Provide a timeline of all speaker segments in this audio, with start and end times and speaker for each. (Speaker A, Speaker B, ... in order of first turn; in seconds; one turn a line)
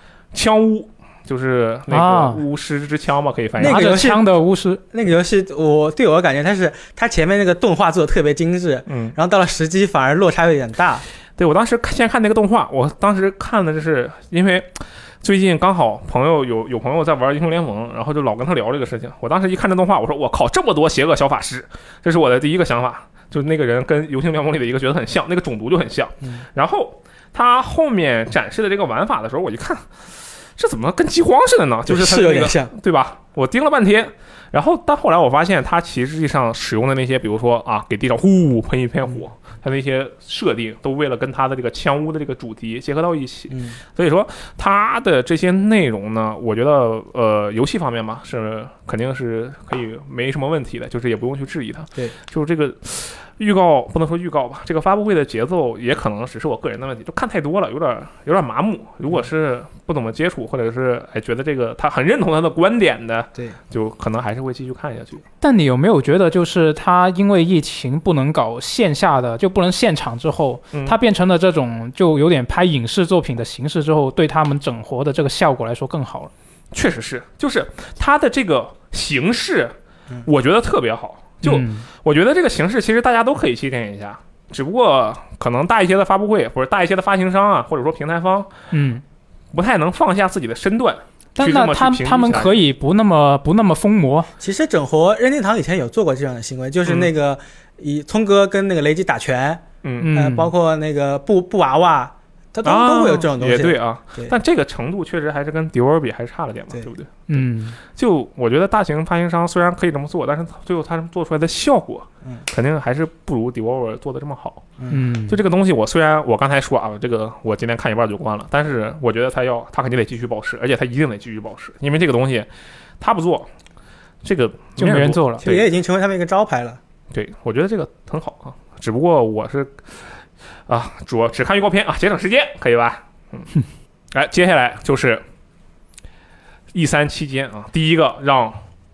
Speaker A: 0.3-3.9
Speaker B: 1.9-2.4
Speaker C: 3.6-4.2
Speaker B: 3.6-4.8
Speaker C: 4.9-11.0
Speaker A: 8.9-9.2
Speaker A: 11.4-65.2
Speaker C: 31.9-32.7
Speaker C: 43.5-43.8
Speaker B: 65.4-76.3
Speaker A: 70.7-71.0
Speaker A: 76.7-88.5
Speaker B: 81.4-81.8
Speaker B: 88.7-89.0
Speaker A: 89.5-92.6
Speaker B: 91.3-94.3
Speaker C: 94.4-104.3
Speaker A: 96.8-97.1
Speaker A: 99.8-100.1
Speaker B: 100.0-100.5
Speaker A: 102.6-122.5
Speaker B: 107.3-107.8
Speaker B: 114.9-115.4
Speaker A: 123.0-123.5
Speaker A: 124.2-125.7
Speaker B: 124.8-125.4
Speaker C: 125.4-126.8
Speaker A: 127.1-129.8
Speaker A: 130.7-133.5
Speaker A: 134.1-135.2
Speaker A: 136.7-138.6